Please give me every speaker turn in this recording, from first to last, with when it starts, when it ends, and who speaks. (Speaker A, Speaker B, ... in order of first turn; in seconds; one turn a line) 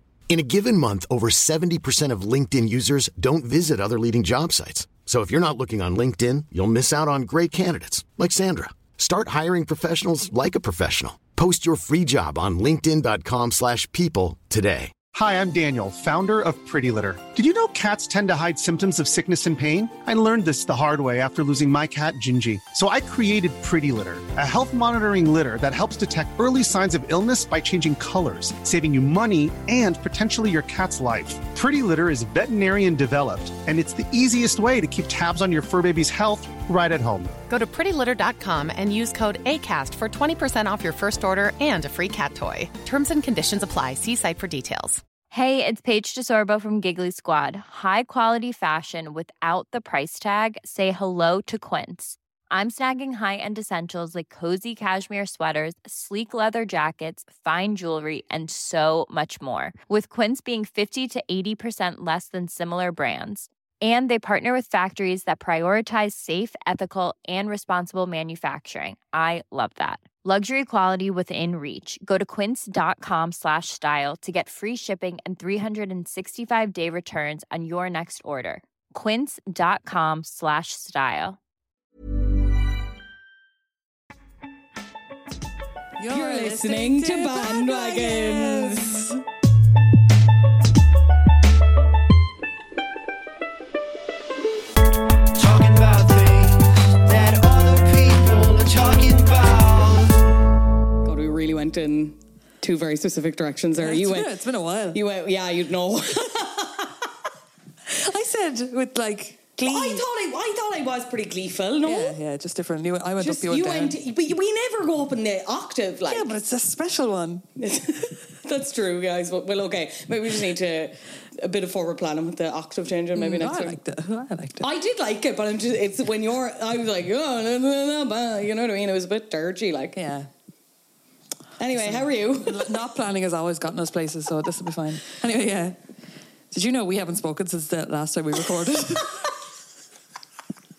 Speaker A: 0.3-14.9
Speaker B: 15.1-37.4
Speaker C: 37.5-45.0
Speaker D: 45.3-81.4
Speaker E: 86.0-89.2
Speaker F: 86.1-89.1
Speaker G: 95.3-100.2
Speaker F: 101.0-104.3
Speaker E: 103.8-105.0
Speaker F: 104.9-107.0
Speaker E: 107.9-110.0
Speaker F: 109.6-112.1
Speaker E: 111.8-113.9
Speaker F: 113.2-116.3
Speaker E: 116.1-117.4
Speaker F: 117.6-123.8
Speaker E: 123.1-124.7
Speaker F: 124.6-130.0
Speaker E: 129.9-130.3
Speaker F: 131.6-132.6
Speaker E: 131.7-135.8
Speaker E: 136.5-139.3